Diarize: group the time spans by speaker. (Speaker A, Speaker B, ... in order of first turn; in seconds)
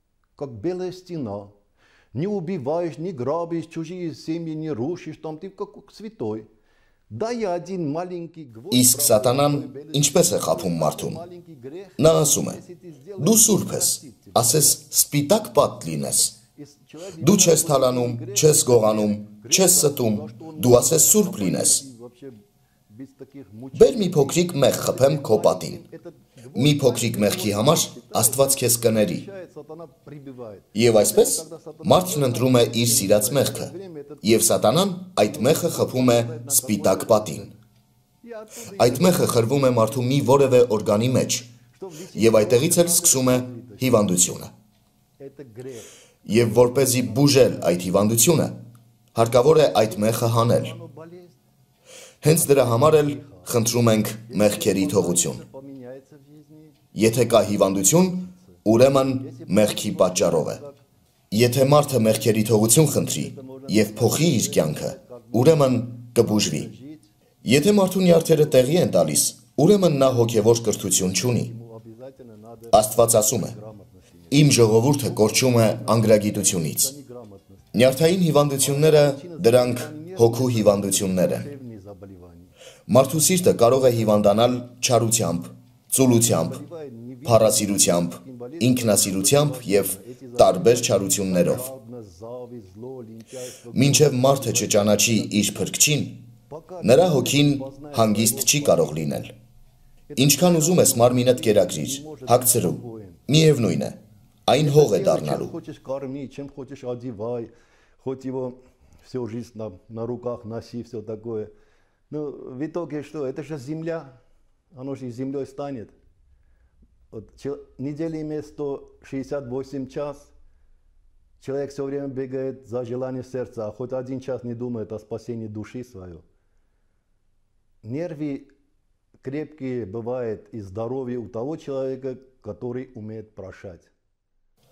Speaker A: 0.3-1.5, 2.1-6.5, 7.1-14.7, 16.5-34.6, 35.2-37.5, 38.2-40.6, 41.7-44.1, 45.2-47.8, 49.7-51.4, 52.3-53.6, 54.2-56.8, 58.1-58.6, 59.1-60.8, 62.9-67.1, 70.5-77.7, 78.6-82.5, 86.3-95.6, 96.5-99.0, 100.1-103.2, 104.5-111.5, 112.1-114.2, 114.7-115.9, 117.1-120.3, 121.4-126.2, 127.8-128.5, 129.2-133.9
Speaker B: 8.7-11.2, 12.0-12.6, 13.2-16.4, 17.2-21.8, 23.7-25.8, 26.5-29.2, 30.7-33.7, 34.2-37.5, 38.8-41.5, 42.1-44.5, 46.2-48.5, 49.1-50.7, 52.2-55.4, 56.9-60.6, 61.3-66.7, 67.4-71.5, 72.7-73.5, 74.3-76.9, 77.7-81.5, 82.9-86.6, 87.2-91.6, 93.7-96.2, 96.8-99.3, 100.2-105.5